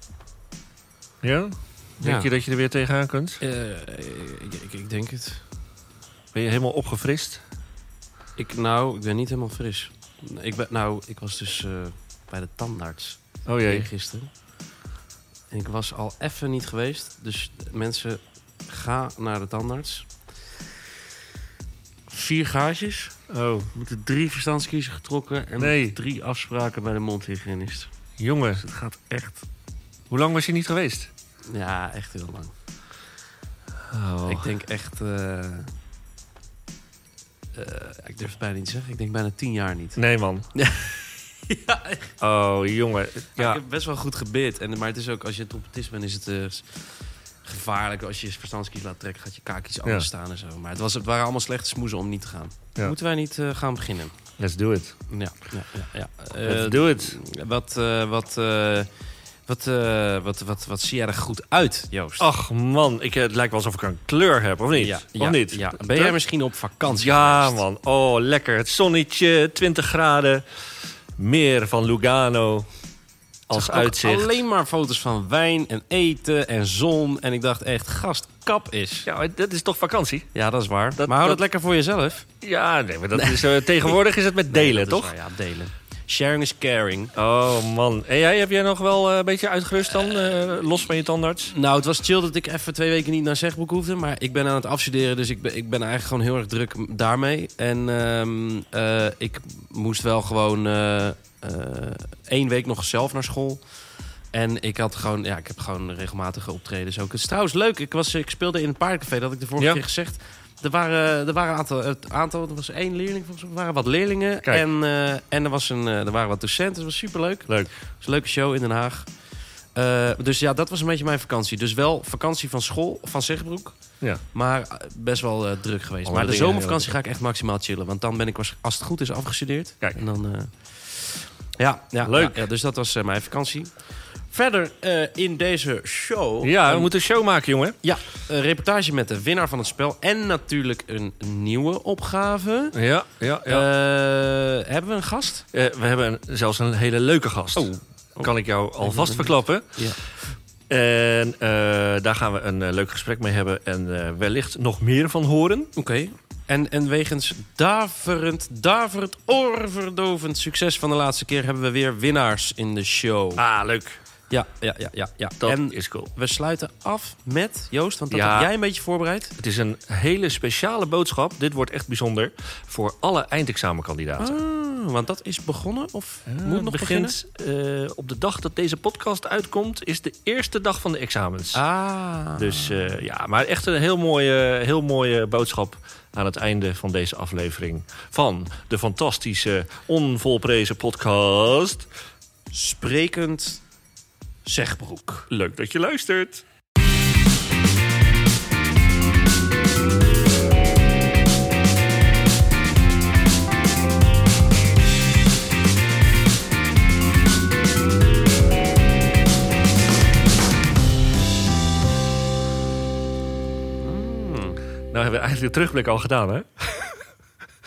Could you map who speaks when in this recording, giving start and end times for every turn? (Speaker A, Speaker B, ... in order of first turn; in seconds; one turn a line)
Speaker A: 1.2-3.4
Speaker B: 2.0-2.3
Speaker B: 3.4-5.4
Speaker A: 6.3-7.4
Speaker B: 8.4-14.3
Speaker A: 13.5-13.9
Speaker B: 15.5-20.3
Speaker B: 22.1-23.2
Speaker A: 23.3-23.7
Speaker B: 23.7-27.9
Speaker A: 25.6-26.0
Speaker A: 28.2-29.4
Speaker A: 30.1-31.1
Speaker B: 31.5-32.5
Speaker A: 33.9-34.5
Speaker B: 34.3-35.7
Speaker B: 37.5-40.0
Speaker A: 40.0-40.5
Speaker B: 40.5-42.1
Speaker A: 42.2-43.6
Speaker B: 43.4-54.2
Speaker A: 54.4-55.0
Speaker B: 55.1-58.9
Speaker A: 56.4-57.2
Speaker B: 59.4-62.3
Speaker A: 62.2-66.2
Speaker B: 64.8-67.6
Speaker A: 66.9-70.4
Speaker A: 71.2-72.7
Speaker A: 73.5-74.3
Speaker B: 73.5-79.1
Speaker A: 79.0-80.3
Speaker B: 80.3-82.3
Speaker A: 81.0-81.4
Speaker A: 82.4-85.1
Speaker B: 83.2-84.0
Speaker B: 84.5-87.1
Speaker A: 87.2-91.5
Speaker B: 91.5-103.8
Speaker B: 104.3-136.9
Speaker A: 126.1-126.9
Speaker A: 132.0-132.4
Speaker A: 136.4-137.8
Speaker B: 137.8-142.8
Speaker A: 142.8-143.7
Speaker B: 143.5-145.5
Speaker A: 145.5-149.8
Speaker B: 147.6-150.0
Speaker A: 150.7-155.7
Speaker B: 155.8-163.4
Speaker A: 163.4-164.0
Speaker B: 164.3-169.3
Speaker A: 165.4-166.1
Speaker A: 168.1-168.5
Speaker A: 169.4-174.4
Speaker B: 174.2-177.2
Speaker A: 176.3-181.6
Speaker B: 181.6-182.9
Speaker A: 182.3-191.9
Speaker B: 192.5-193.6
Speaker B: 194.4-195.3
Speaker A: 195.3-196.4
Speaker B: 213.7-214.6
Speaker A: 214.9-217.0